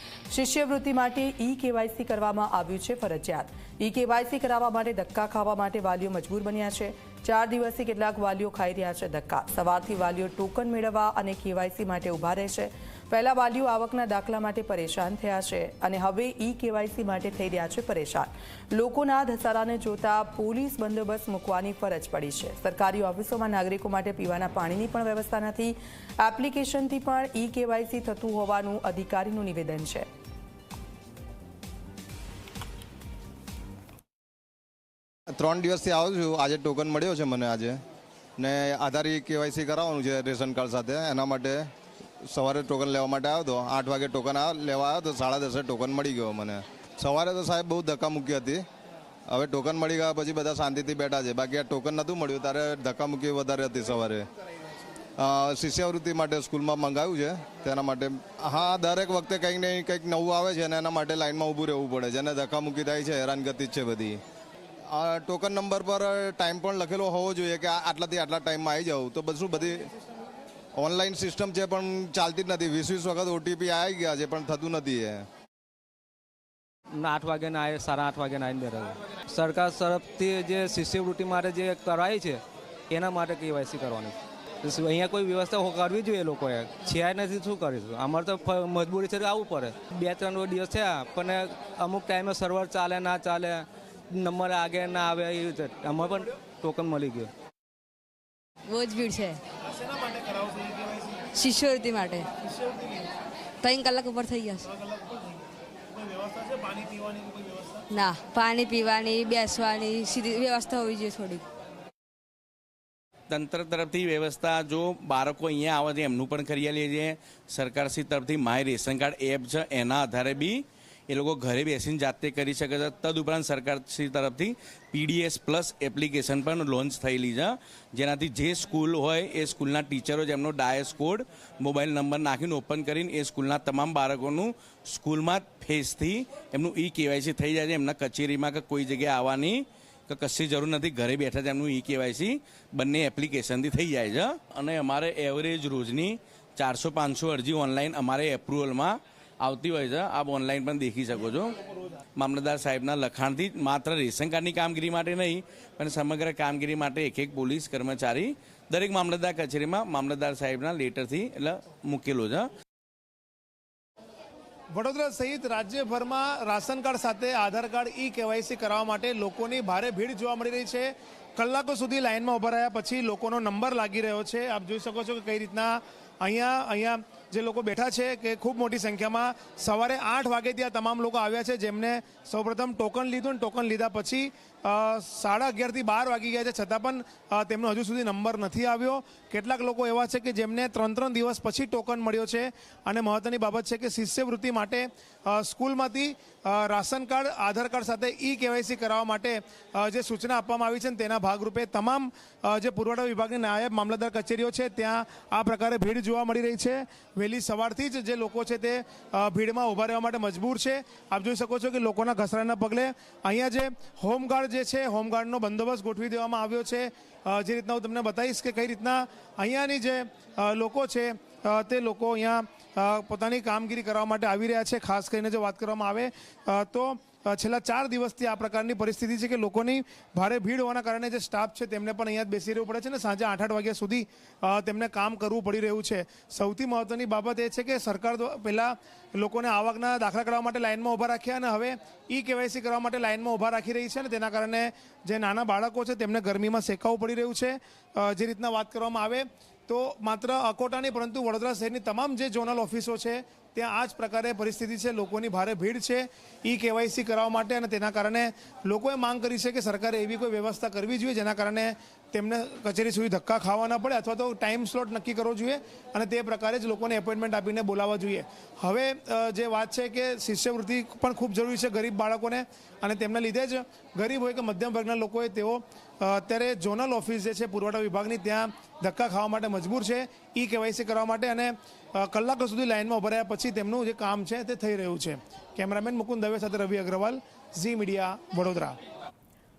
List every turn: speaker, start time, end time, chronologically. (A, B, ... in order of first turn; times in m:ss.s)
0:00.3-0:30.1 A
0:35.4-0:37.8 B
0:38.4-0:41.7 B
0:42.2-0:48.6 B
0:49.3-0:54.2 B
0:55.2-1:04.2 B
1:04.9-1:09.9 B
1:10.8-1:15.3 B
1:16.9-1:37.3 C
1:38.7-1:39.4 D
1:39.7-1:41.3 E
1:41.3-1:42.3 D
1:42.4-1:43.1 E
1:43.6-1:44.6 D
1:44.7-1:45.2 E
1:45.9-1:47.8 E
1:47.9-1:51.4 D
1:53.3-2:31.6 F
2:32.2-2:42.5 F
2:44.7-4:48.8 E